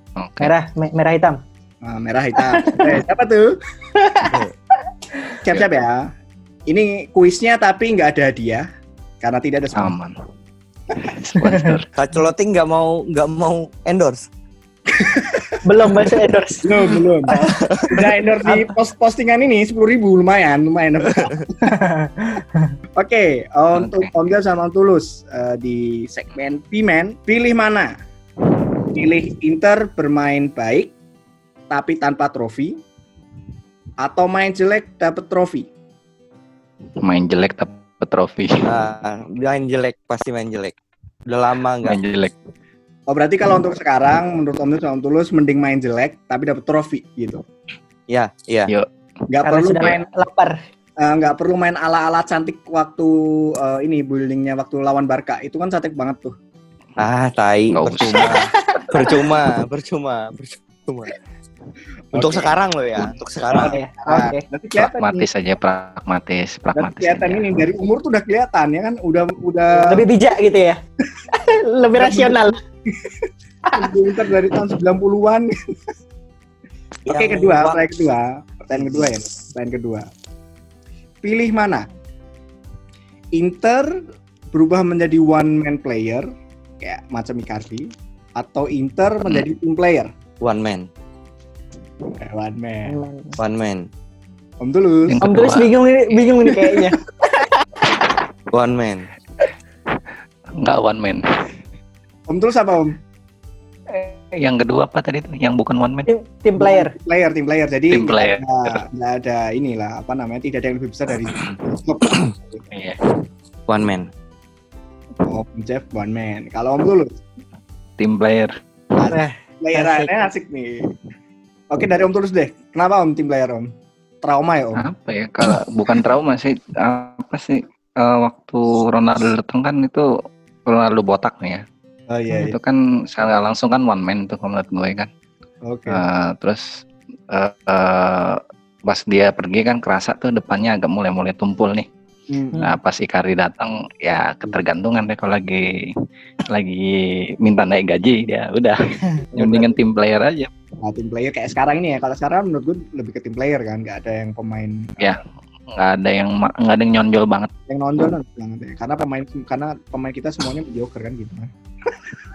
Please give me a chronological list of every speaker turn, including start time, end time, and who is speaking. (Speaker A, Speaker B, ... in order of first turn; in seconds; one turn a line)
Speaker A: 0.2-0.5
Speaker B: 0.4-1.4
Speaker C: 1.8-3.5
Speaker B: 2.4-3.0
Speaker B: 4.0-4.4
Speaker C: 5.4-6.0
Speaker C: 6.7-8.6
Speaker C: 9.2-9.9
Speaker A: 9.8-10.1
Speaker A: 10.9-11.9
Speaker B: 11.4-11.7
Speaker D: 11.9-14.3
Speaker C: 14.9-15.6
Speaker B: 15.6-17.5
Speaker C: 16.6-21.7
Speaker D: 17.5-18.0
Speaker B: 18.4-18.7
Speaker D: 21.1-21.4
Speaker B: 21.6-22.7
Speaker C: 23.0-27.9
Speaker A: 23.7-24.1
Speaker C: 28.9-30.9
Speaker C: 31.7-32.8
Speaker C: 34.0-35.7
Speaker A: 37.0-38.8
Speaker D: 38.7-40.7
Speaker D: 41.3-42.0
Speaker A: 41.8-42.3
Speaker C: 43.1-47.4
Speaker D: 48.1-48.7
Speaker C: 49.3-50.0
Speaker B: 49.4-50.5
Speaker C: 51.0-56.3
Speaker D: 57.0-61.2
Speaker A: 57.7-58.4
Speaker B: 58.3-59.1
Speaker C: 62.1-65.3
Speaker D: 62.1-63.7
Speaker B: 63.7-64.4
Speaker A: 64.8-67.6
Speaker C: 66.8-70.0
Speaker B: 69.7-70.8
Speaker B: 71.3-72.6
Speaker C: 72.0-75.5
Speaker D: 77.0-77.8
Speaker C: 77.1-80.1
Speaker C: 81.2-81.8
Speaker C: 83.3-83.9
Speaker C: 84.5-86.2
Speaker C: 86.8-90.1
Speaker D: 90.4-90.9
Speaker C: 92.1-93.0
Speaker B: 92.9-93.4
Speaker D: 93.4-93.9
Speaker C: 94.6-95.2
Speaker A: 95.1-96.2
Speaker B: 95.2-97.5
Speaker C: 96.5-96.8
Speaker D: 98.5-99.1
Speaker A: 100.6-101.2
Speaker C: 102.3-102.9
Speaker A: 103.9-106.1
Speaker B: 106.1-106.9
Speaker C: 106.6-112.6
Speaker A: 107.9-108.8
Speaker A: 112.7-113.0
Speaker D: 113.7-114.1
Speaker C: 115.2-117.1
Speaker A: 118.0-118.5
Speaker C: 119.0-120.8
Speaker B: 119.1-120.3
Speaker C: 121.7-123.7
Speaker C: 124.2-124.8
Speaker A: 124.8-130.1
Speaker A: 130.7-131.6
Speaker C: 132.1-132.6
Speaker A: 132.3-135.1
Speaker C: 135.7-136.0
Speaker A: 135.9-141.8
Speaker C: 142.3-142.6
Speaker A: 142.6-145.9
Speaker A: 146.5-148.8
Speaker C: 149.3-149.8
Speaker A: 149.3-150.5
Speaker C: 150.8-155.2
Speaker A: 155.0-157.5
Speaker C: 157.7-162.1